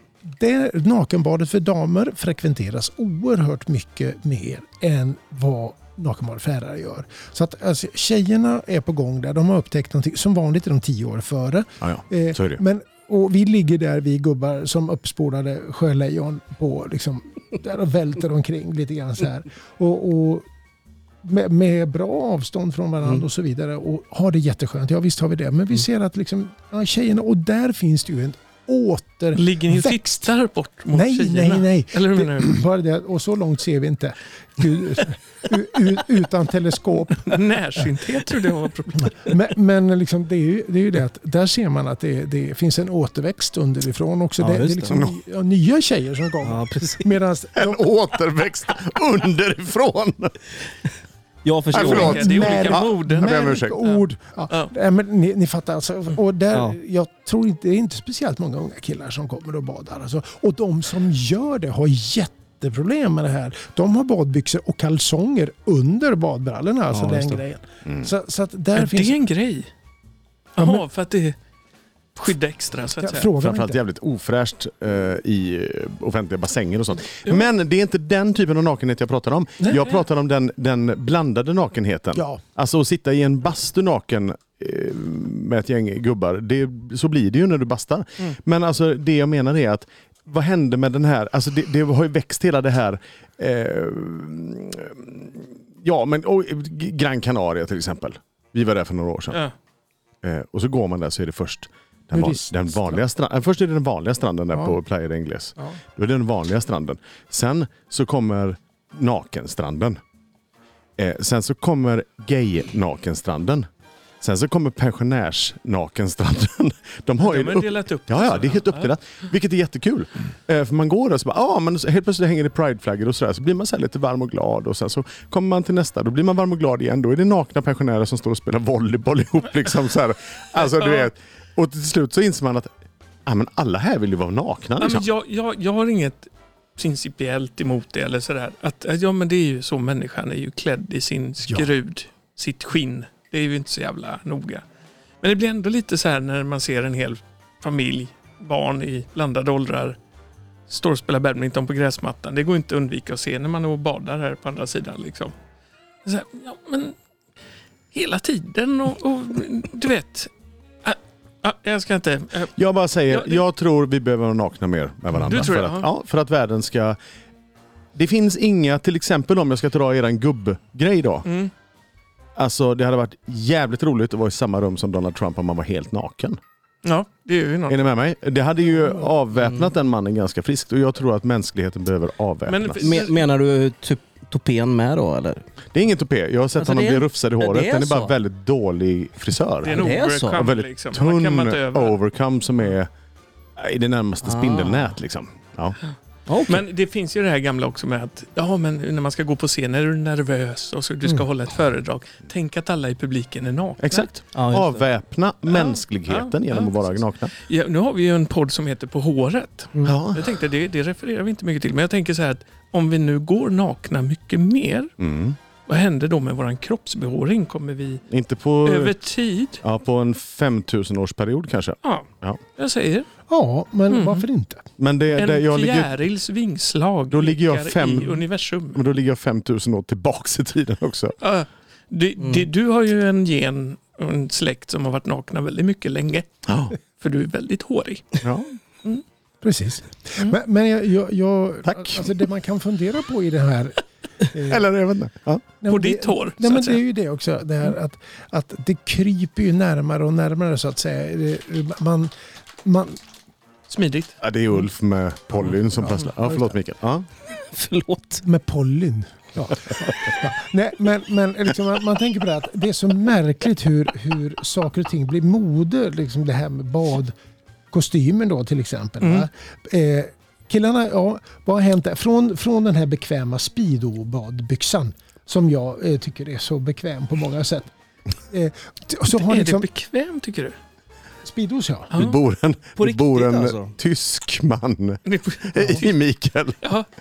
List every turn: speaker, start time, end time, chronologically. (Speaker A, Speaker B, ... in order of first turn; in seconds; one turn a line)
Speaker A: 0.2-20.5
Speaker B: 11.8-12.6
Speaker A: 21.2-30.3
Speaker C: 29.3-32.5
Speaker A: 30.9-37.9
Speaker C: 37.2-39.3
Speaker A: 39.2-47.8
Speaker D: 44.4-45.1
Speaker D: 46.4-47.1
Speaker B: 47.6-50.4
Speaker D: 51.4-52.5
Speaker C: 51.7-54.7
Speaker B: 51.7-53.8
Speaker A: 51.8-69.2
Speaker D: 66.9-67.4
Speaker C: 68.8-69.7
Speaker A: 70.6-70.8
Speaker C: 70.6-71.4
Speaker C: 72.2-73.3
Speaker A: 73.0-73.8
Speaker B: 73.4-99.4
Speaker C: 79.6-80.0
Speaker A: 82.2-82.4
Speaker B: 100.2-110.0
Speaker A: 102.1-103.0
Speaker B: 111.0-113.7
Speaker B: 114.2-132.7
Speaker C: 117.2-118.9
Speaker C: 130.6-131.1
Speaker B: 133.3-135.1
Speaker C: 134.8-144.6
Speaker C: 145.2-150.0
Speaker C: 150.7-155.3
Speaker C: 156.1-156.9
Speaker C: 157.9-160.3
Speaker C: 160.8-162.5
Speaker B: 162.6-167.0
Speaker C: 163.1-163.4
Speaker C: 165.1-165.9
Speaker B: 167.9-171.3
Speaker C: 171.2-171.5
Speaker B: 172.4-176.4
Speaker C: 176.8-177.8
Speaker B: 177.7-182.9
Speaker C: 182.5-183.2
Speaker D: 182.8-185.4
Speaker B: 185.7-192.9
Speaker D: 186.6-188.2
Speaker C: 189.6-192.0
Speaker D: 189.7-190.4
Speaker B: 193.6-195.8
Speaker D: 194.2-195.0
Speaker D: 196.3-196.7
Speaker C: 196.5-204.1
Speaker B: 203.8-207.3
Speaker D: 204.3-204.9
Speaker C: 205.5-214.9
Speaker B: 209.8-210.3
Speaker B: 215.0-215.4
Speaker C: 215.7-218.0
Speaker B: 218.1-218.9
Speaker C: 218.7-219.6
Speaker B: 219.6-222.4
Speaker C: 221.8-223.1
Speaker A: 223.3-224.7
Speaker C: 223.9-224.2
Speaker B: 224.8-225.9
Speaker C: 225.2-228.8
Speaker B: 227.1-231.2
Speaker C: 231.2-238.2
Speaker D: 232.2-232.5
Speaker B: 236.5-236.8
Speaker B: 238.2-238.5
Speaker A: 239.4-244.7
Speaker B: 241.7-242.1
Speaker B: 244.4-245.5
Speaker A: 245.6-252.1
Speaker C: 245.7-246.8
Speaker A: 252.6-253.0
Speaker C: 253.7-254.2
Speaker B: 254.2-257.1
Speaker C: 255.4-256.0
Speaker A: 256.2-256.5
Speaker D: 257.4-258.2
Speaker A: 258.2-267.2
Speaker A: 267.7-277.7
Speaker C: 269.0-269.3
Speaker A: 278.3-279.7
Speaker C: 279.1-280.6
Speaker A: 281.2-281.9
Speaker C: 281.9-282.2
Speaker B: 281.9-286.6
Speaker D: 282.8-283.8
Speaker C: 285.1-285.9
Speaker C: 286.6-286.9